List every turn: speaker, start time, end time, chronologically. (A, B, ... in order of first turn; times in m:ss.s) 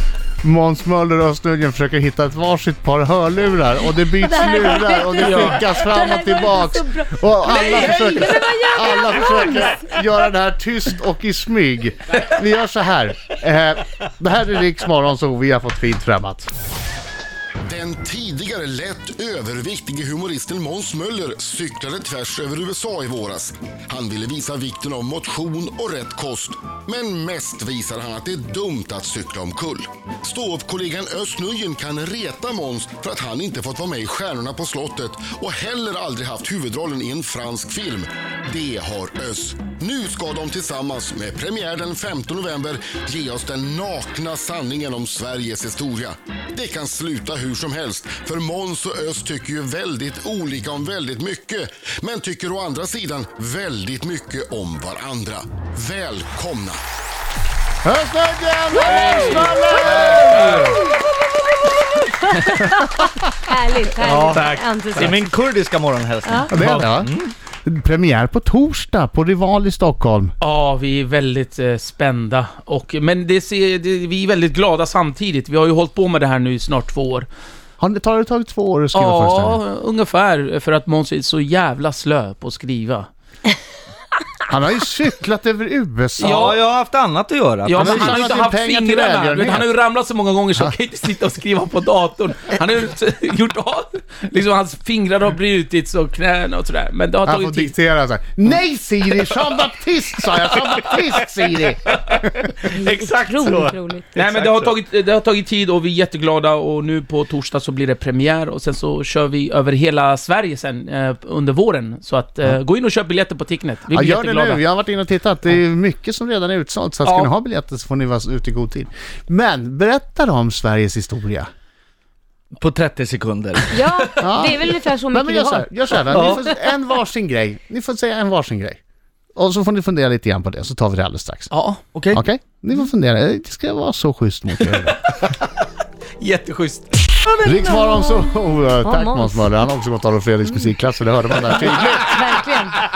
0:00.4-0:16.5 A
0:04.2-0:09.9 B
0:05.2-0:05.6 C
0:07.4-0:08.5 C
0:17.6-0:56.8 D
0:57.8-1:00.8 A
0:58.8-0:59.7 B
0:58.8-1:00.8 C
1:02.2-1:05.3 B
1:02.6-1:03.2 A
1:04.0-1:07.3 E
1:04.3-1:05.1 C
1:06.2-1:06.5 B
1:06.5-1:07.1 A
1:06.6-1:06.9 C
1:07.6-1:10.3 A
1:10.4-1:17.3 C
1:17.8-1:19.6 A
1:18.9-1:23.1 C
1:24.5-1:26.5 A
1:26.2-1:28.3 E
1:26.2-1:26.6 C
1:27.6-1:37.8 C
1:27.8-1:29.7 A
1:37.2-1:42.5 A
1:40.5-1:40.8 C
1:42.2-1:44.7 E
1:42.6-1:44.2 B
1:44.2-1:54.6 C
1:53.9-2:01.5 A
1:57.0-1:57.3 C
2:02.5-2:04.3 E
2:03.7-2:06.5 B
2:04.2-2:08.8 A
2:06.1-2:06.4 E
2:09.4-2:11.5 A
2:11.5-2:11.8 C
2:11.9-2:12.2 E
2:12.1-2:15.1 A
2:14.6-2:15.5 C
2:16.2-2:17.3 C
2:17.4-2:22.2 A
2:17.6-2:18.3 B
2:18.8-2:19.5 B
2:20.4-2:20.7 B
2:21.6-2:22.8 B